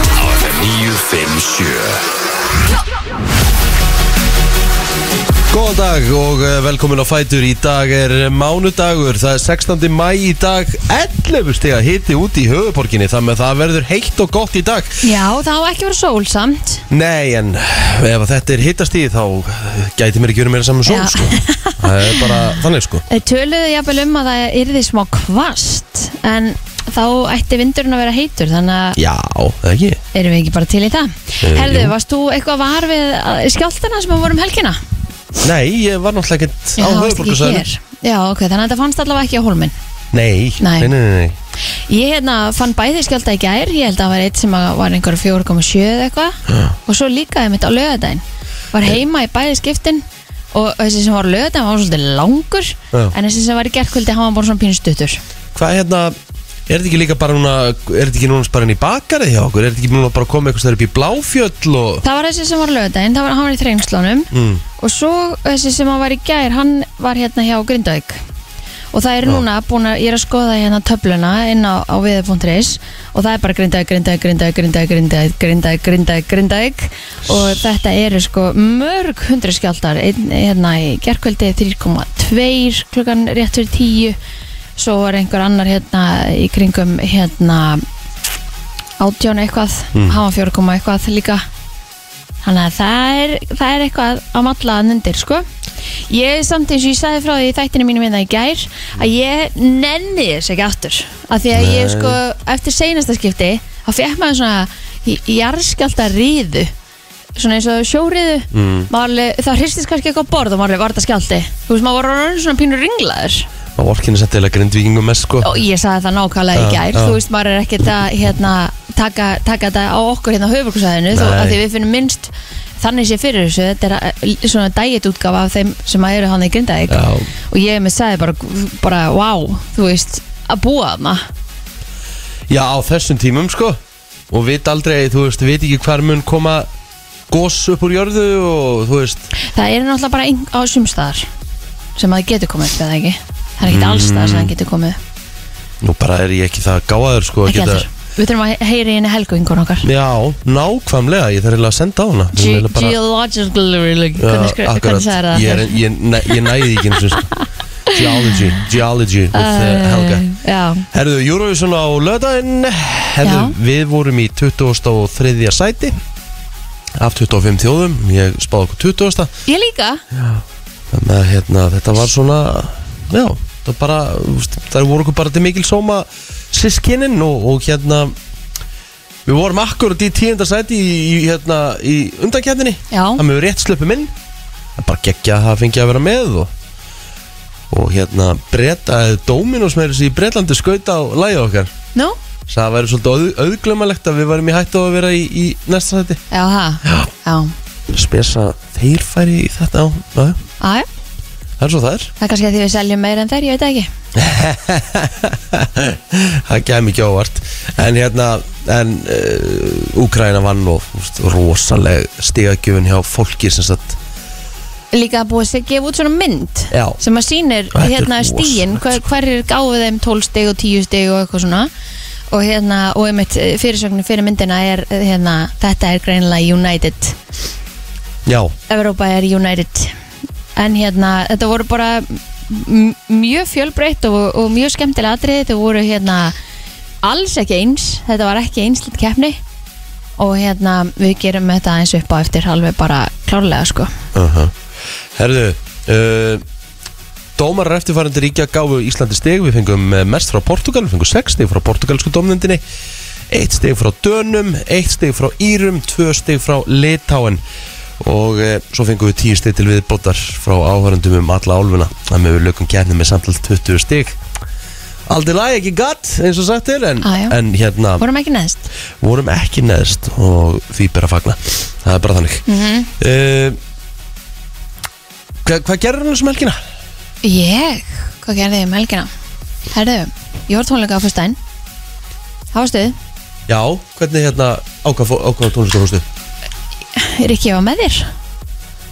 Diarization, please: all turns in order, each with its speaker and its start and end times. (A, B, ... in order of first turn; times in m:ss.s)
0:00.1-0:02.1 A
0:05.5-0:15.0 B
0:15.0-0:16.9 C
0:16.9-0:23.0 B
0:20.9-0:22.6 C
0:23.1-0:29.0 C
0:29.0-0:30.0 B
0:30.1-0:34.8 C
0:31.4-0:31.9 B
0:35.4-0:37.6 B
0:36.8-0:39.8 C
0:40.1-0:41.4 B
0:40.6-0:40.9 C
0:41.9-0:55.2 C
0:46.5-0:46.8 B
0:55.6-0:56.2 B
0:56.7-1:02.0 B
1:02.0-1:08.2 C
1:04.3-1:04.6 B
1:08.9-1:24.2 C
1:17.3-1:17.6 B
1:24.8-1:27.8 C
1:29.0-1:31.4 C
1:29.9-1:30.2 B
1:32.4-1:35.5 C
1:36.1-1:46.7 C
1:41.5-1:42.2 B
1:47.4-1:53.5 C
1:48.5-1:48.9 B
1:53.8-1:55.5 B
1:55.4-2:11.3 C
1:56.5-1:57.2 B
2:01.1-2:01.6 B
2:06.9-2:07.3 B
2:12.5-2:16.7 B
2:17.3-2:19.3 B
2:19.3-2:21.3 C
2:22.0-2:25.0 C
2:23.6-2:24.5 B
2:25.8-2:27.9 B
2:27.5-2:29.9 C
2:29.8-2:33.0 B
2:32.4-2:38.6 C
2:34.2-2:37.3 B
2:37.9-2:40.3 B
2:39.3-2:40.9 C
2:40.9-2:46.0 B
2:43.2-2:43.6 C
2:47.0-2:49.3 B
2:49.5-2:50.0 C
2:50.1-2:58.2 B
2:59.3-3:04.1 B
3:02.9-3:03.2 C
3:04.8-3:06.5 B
3:07.7-3:11.7 B
3:12.5-3:16.2 B
3:16.3-3:17.5 C
3:16.8-3:17.1 B
3:17.9-3:20.4 B
3:20.6-3:20.9 C
3:21.6-3:22.1 B
3:22.2-3:23.9 C
3:24.1-3:34.0 B
3:34.9-3:41.7 C
3:36.7-3:37.0 B
3:37.7-3:39.0 B
3:42.3-3:47.2 C
3:48.3-3:48.5 B
3:48.7-3:49.9 C
3:50.6-3:56.4 C
3:57.0-3:59.4 C
4:00.2-4:03.9 C
4:04.1-4:04.6 B
4:05.2-4:06.4 B
4:07.4-4:12.6 B
4:13.3-4:17.4 B
4:18.0-4:24.2 B
4:25.1-4:28.0 B
4:27.0-4:27.4 C
4:28.0-4:28.7 C
4:29.0-4:32.5 B
4:32.5-4:32.9 C
4:33.0-4:33.6 B
4:35.4-4:36.6 B
4:37.2-4:39.1 C
4:39.7-4:41.4 C
4:42.5-4:43.0 C
4:43.5-4:46.1 B
4:47.0-4:48.1 C